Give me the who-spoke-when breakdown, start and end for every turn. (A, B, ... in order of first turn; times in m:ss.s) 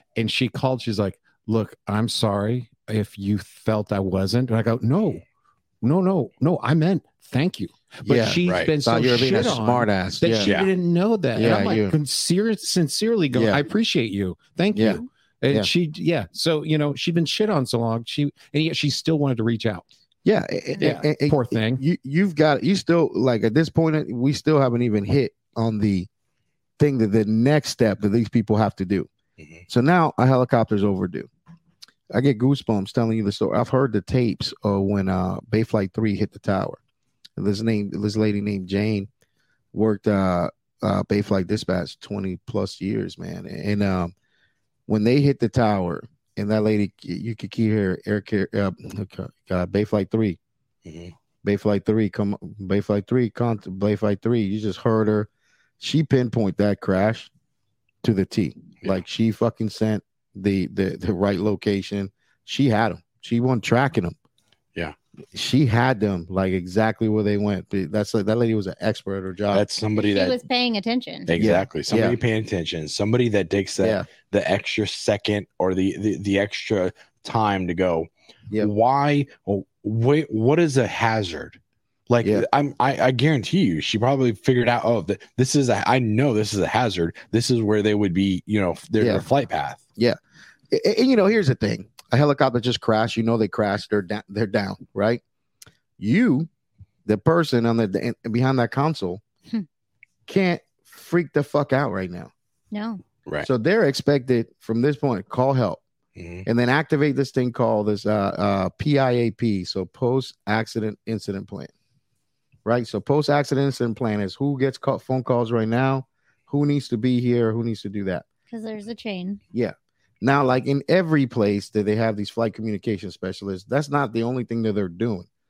0:00.2-0:05.2 A
0:05.8-0:19.9 A
0:08.0-0:10.6 B
0:10.4-0:10.7 C
0:11.3-0:12.0 B
0:13.3-0:13.6 B
0:14.7-0:15.7 B
0:20.2-0:26.1 B
0:20.8-0:21.8 A
0:26.8-0:29.1 B
0:29.7-0:31.3 B
0:32.1-0:36.8 B
0:37.4-0:39.1 B
0:39.7-0:44.1 B
0:44.9-0:50.4 B
0:50.8-0:51.1 C
0:51.4-0:55.3 B
0:55.8-0:57.3 B
0:58.0-1:04.2 B
1:05.3-1:09.6 B
1:09.5-1:10.4 C
1:10.0-1:11.3 D
1:11.3-1:21.6 C
1:11.4-1:12.2 B
1:13.8-1:14.1 B
1:22.1-1:29.8 C
1:29.0-1:29.3 B
1:30.7-1:35.2 B
1:36.0-1:36.5 B
1:37.1-1:39.2 B
1:40.3-1:42.3 B
1:42.7-1:43.0 D
1:43.4-1:45.8 B
1:46.2-1:46.4 C
1:46.4-1:51.7 B
1:52.6-1:58.2 B
1:58.5-1:59.4 D
1:59.5-2:05.3 B